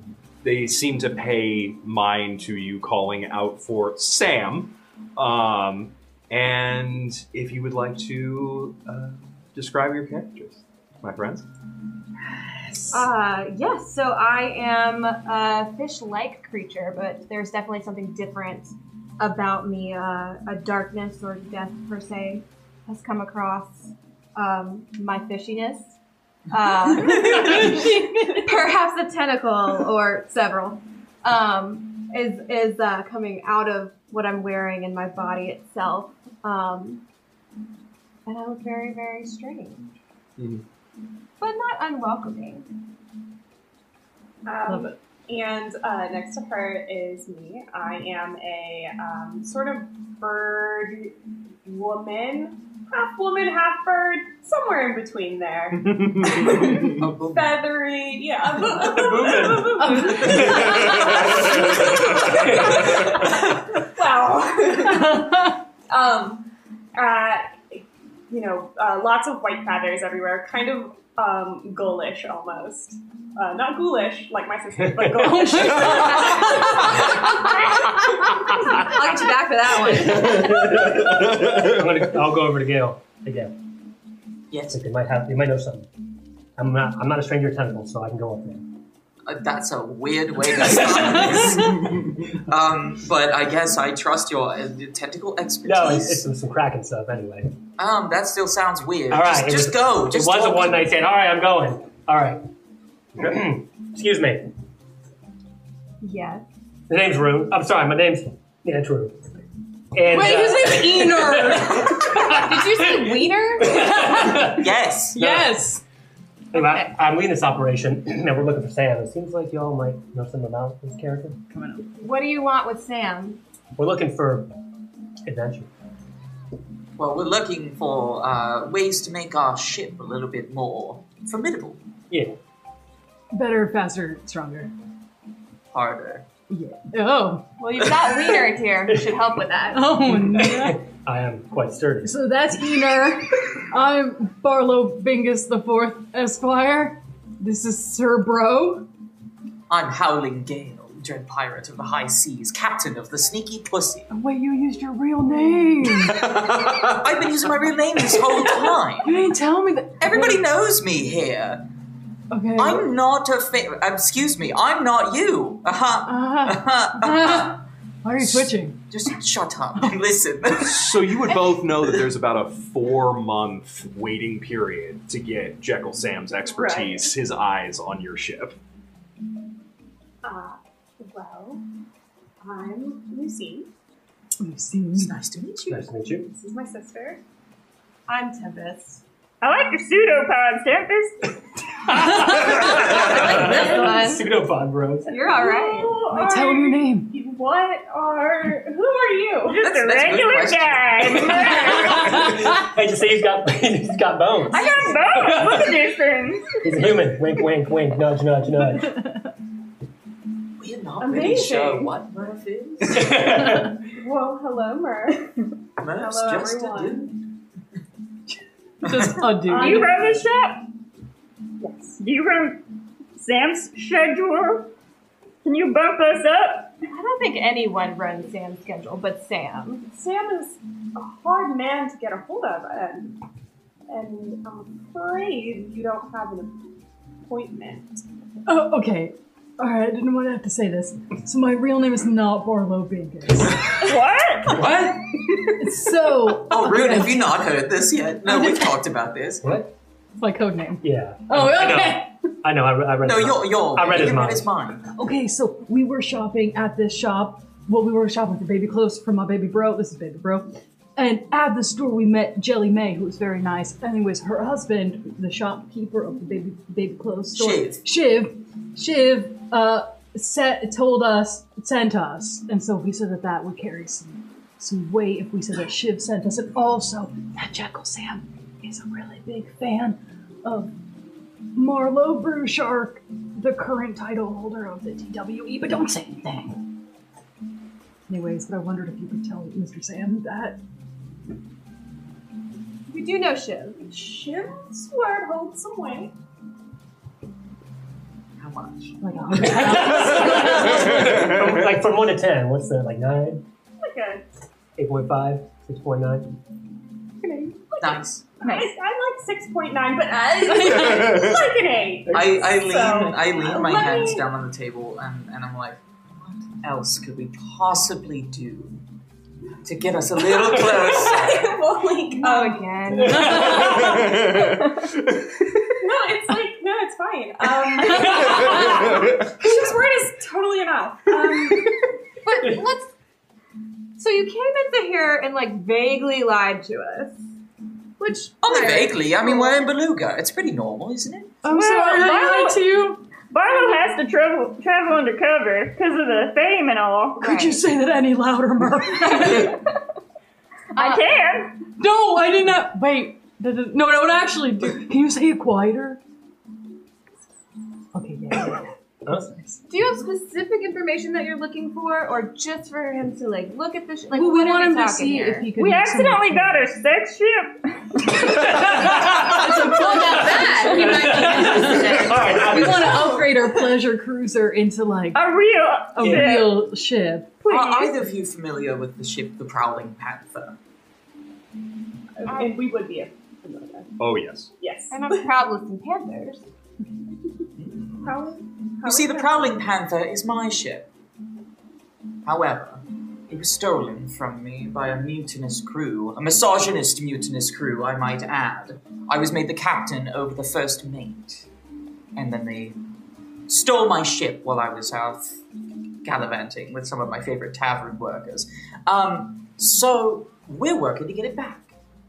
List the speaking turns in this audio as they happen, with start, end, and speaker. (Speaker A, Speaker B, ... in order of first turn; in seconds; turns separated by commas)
Speaker A: 0.4-11.4, Speaker B: 12.3-13.1, Speaker C: 12.9-25.9, Speaker C: 26.5-37.0, Speaker D: 27.0-28.1, Speaker B: 27.1-28.4, Speaker C: 38.2-40.0, Speaker A: 40.4-40.6, Speaker C: 41.4-42.7, Speaker D: 44.4-77.6, Speaker B: 44.7-44.9, Speaker A: 55.9-56.9, Speaker E: 56.8-57.7, Speaker F: 59.0-59.6, Speaker A: 59.0-59.6, Speaker B: 59.7-61.7, Speaker A: 60.4-62.2, Speaker B: 65.0-65.2, Speaker B: 75.1-76.8, Speaker C: 77.4-80.6, Speaker F: 79.8-83.5, Speaker A: 80.0-81.8, Speaker E: 84.5-84.8, Speaker F: 84.7-85.9, Speaker F: 86.6-88.7, Speaker E: 89.2-96.2, Speaker B: 91.0-91.7, Speaker F: 95.6-97.5, Speaker E: 97.8-100.9, Speaker F: 99.1-102.4, Speaker F: 103.2-104.4, Speaker C: 106.0-106.4, Speaker F: 106.9-109.2, Speaker F: 109.9-115.6, Speaker B: 110.1-112.0, Speaker C: 112.1-113.8, Speaker B: 113.7-115.8, Speaker E: 114.2-115.2, Speaker F: 116.5-121.4, Speaker C: 116.5-116.9, Speaker B: 121.5-121.8, Speaker C: 122.0-123.4, Speaker F: 123.8-124.5, Speaker F: 125.2-125.7, Speaker E: 127.0-131.8, Speaker F: 132.1-132.3, Speaker B: 133.3-134.7, Speaker E: 135.7-136.2, Speaker B: 136.5-137.5, Speaker C: 137.6-140.0, Speaker F: 138.9-139.2, Speaker B: 139.7-140.8, Speaker F: 140.1-142.2, Speaker B: 142.0-148.9, Speaker E: 149.7-154.1, Speaker B: 154.1-156.2, Speaker A: 156.1-157.0, Speaker E: 156.1-159.2, Speaker B: 158.2-160.4, Speaker E: 160.0-161.6, Speaker B: 162.3-162.9, Speaker E: 162.6-167.6, Speaker B: 166.0-168.8, Speaker E: 168.9-171.4, Speaker A: 170.6-178.6, Speaker D: 176.4-177.1, Speaker D: 180.2-181.6, Speaker D: 182.4-183.7, Speaker B: 184.4-185.1, Speaker E: 184.9-185.9, Speaker F: 185.7-186.3, Speaker D: 186.2-187.2, Speaker C: 188.1-189.0, Speaker G: 189.4-191.3, Speaker F: 191.9-195.1, Speaker C: 192.4-194.3, Speaker C: 195.1-196.0, Speaker D: 195.2-199.6, Speaker B: 196.1-197.1, Speaker E: 199.5-201.8, Speaker G: 199.5-202.1, Speaker F: 201.8-205.7, Speaker G: 204.5-206.6, Speaker F: 206.6-208.9, Speaker E: 210.6-213.4, Speaker D: 211.0-211.9, Speaker F: 212.9-213.7, Speaker D: 213.9-215.3, Speaker E: 215.8-217.1, Speaker D: 215.9-217.2, Speaker B: 218.8-219.9, Speaker E: 218.8-219.2, Speaker G: 219.5-220.6, Speaker D: 219.5-220.2, Speaker D: 221.6-222.0, Speaker G: 222.0-222.6, Speaker G: 223.2-224.7, Speaker G: 225.4-226.7, Speaker C: 226.9-229.8, Speaker D: 229.9-233.2, Speaker D: 233.9-236.6, Speaker D: 237.3-238.0, Speaker B: 238.4-243.8, Speaker G: 243.8-244.6, Speaker B: 244.6-244.9, Speaker B: 245.6-247.5, Speaker E: 246.4-249.6, Speaker B: 248.2-248.8, Speaker F: 249.4-249.7, Speaker B: 250.2-252.1, Speaker F: 250.8-254.5, Speaker E: 253.0-254.8, Speaker B: 254.9-280.7, Speaker E: 267.3-267.8, Speaker B: 281.5-286.7, Speaker B: 288.1-290.6, Speaker C: 292.9-293.9, Speaker D: 293.8-296.1, Speaker E: 298.4-299.7, Speaker B: 299.0-301.1, Speaker F: 299.5-303.4, Speaker A: 299.8-301.4, Speaker D: 303.8-304.2, Speaker F: 304.8-306.3, Speaker D: 307.2-314.3, Speaker E: 307.8-308.2, Speaker E: 312.1-318.8, Speaker E: 319.6-321.5, Speaker D: 320.4-323.1, Speaker C: 322.1-324.2, Speaker F: 323.0-323.7, Speaker B: 323.1-323.9, Speaker A: 323.4-324.9, Speaker D: 325.8-331.8, Speaker B: 328.1-328.4, Speaker C: 332.2-332.9, Speaker C: 334.0-337.2, Speaker C: 338.0-339.6, Speaker E: 338.4-341.4, Speaker B: 341.4-343.1, Speaker G: 341.5-342.6, Speaker G: 343.2-347.2, Speaker B: 347.2-349.6, Speaker C: 347.2-347.6, Speaker C: 350.7-351.2, Speaker G: 350.7-351.5, Speaker B: 351.8-356.0, Speaker B: 357.9-359.6, Speaker C: 359.7-365.5, Speaker B: 364.1-366.7, Speaker G: 365.6-368.3, Speaker B: 368.4-375.2, Speaker F: 368.7-369.2, Speaker C: 369.5-371.9, Speaker G: 369.8-372.1, Speaker F: 370.8-373.3, Speaker A: 372.3-372.6, Speaker G: 375.1-376.6, Speaker B: 375.9-377.9, Speaker F: 376.0-376.4, Speaker E: 377.4-380.6, Speaker D: 382.2-383.9, Speaker C: 382.3-382.6, Speaker A: 384.0-384.5, Speaker D: 384.6-385.3, Speaker C: 384.9-386.4, Speaker E: 387.6-388.2, Speaker D: 388.0-389.5, Speaker E: 388.8-390.9, Speaker E: 392.2-401.5, Speaker E: 402.1-402.8, Speaker E: 403.5-405.4, Speaker E: 406.0-411.7